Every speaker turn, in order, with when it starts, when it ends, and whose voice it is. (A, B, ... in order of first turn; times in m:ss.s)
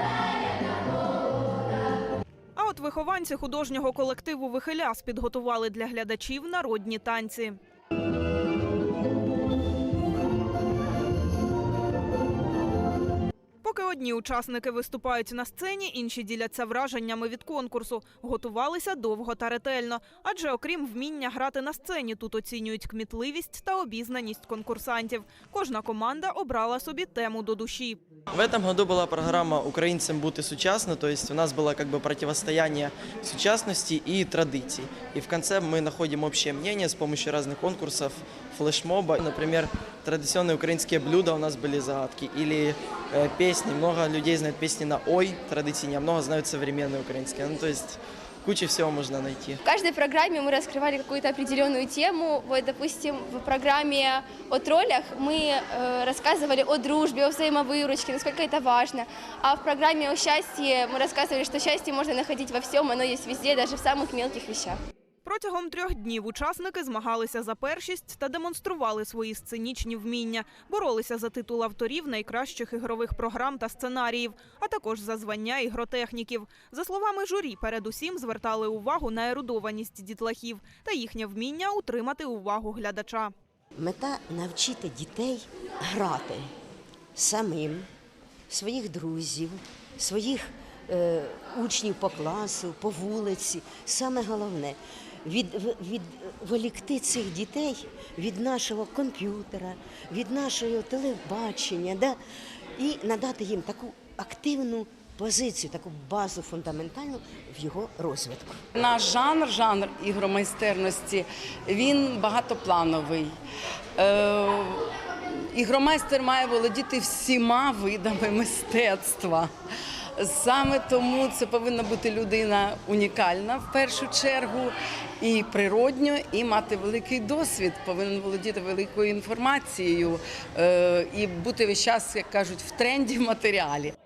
0:02.6-0:07.6 A
0:13.6-0:28.0 A
0:28.3-0:49.6 B
0:49.6-1:04.8 C
1:05.2-1:23.3 A
1:23.8-1:26.5 D
1:27.2-1:27.9 D
1:28.5-1:42.2 D
1:42.8-1:48.6 D
1:48.8-1:53.4 E
1:54.0-1:54.9 E
1:55.5-1:59.5 E
2:00.2-2:13.9 E